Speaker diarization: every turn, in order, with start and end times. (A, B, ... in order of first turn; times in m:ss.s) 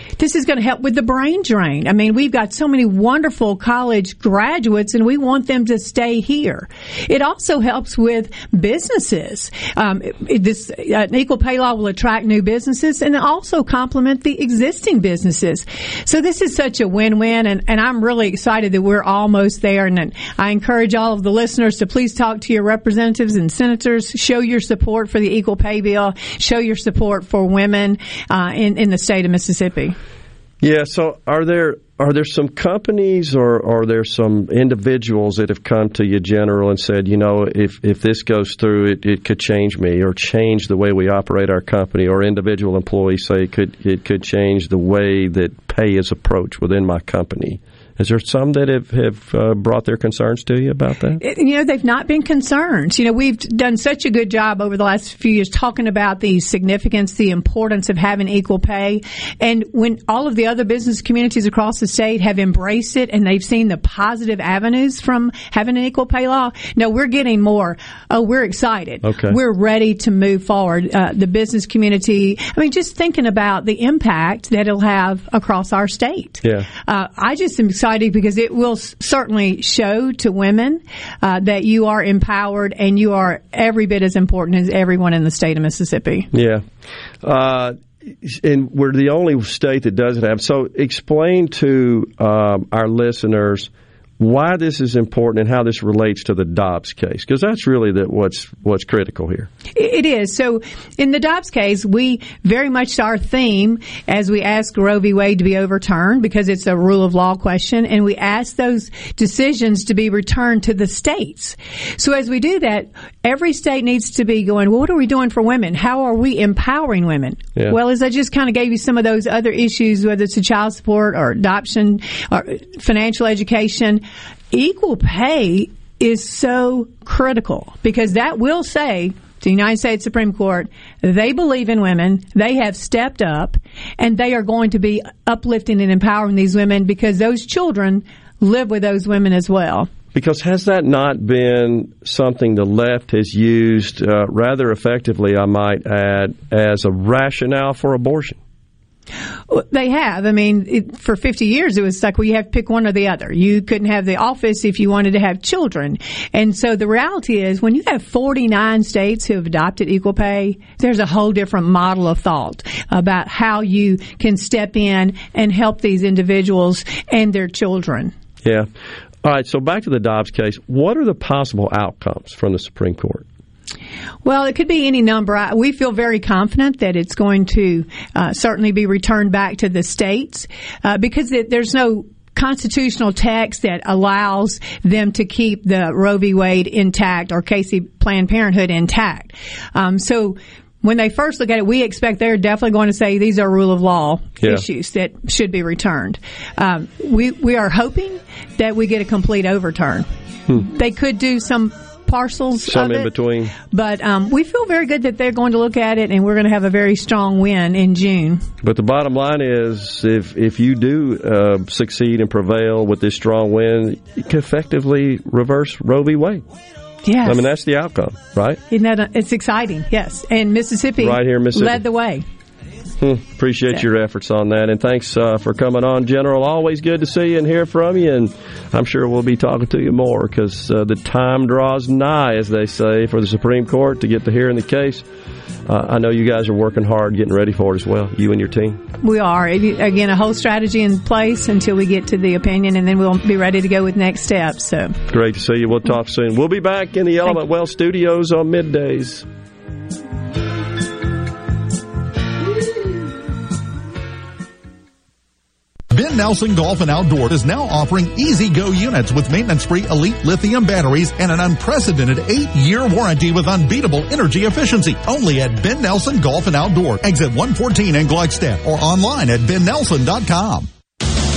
0:00.2-0:30.0 A
0:30.6-0:51.2 B
0:51.2-1:26.3 A
1:09.0-1:09.4 B
1:26.3-1:26.6 B
1:27.2-1:39.5 B
1:39.7-2:19.9 A
2:20.1-2:28.4 B
2:29.5-2:48.1 A
2:49.2-2:53.2 B
2:54.2-3:20.1 A
3:20.6-3:23.1 A
3:22.7-3:23.5 B
3:23.7-3:28.4 A
3:28.6-3:36.4 B
3:37.0-3:37.4 A
3:37.2-3:38.6 B
3:38.7-3:42.2 A
3:41.0-3:41.8 B
3:43.0-3:55.0 B
3:55.7-3:58.8 B
3:59.0-4:05.0 A
4:05.1-4:09.2 B
4:15.9-4:30.7 C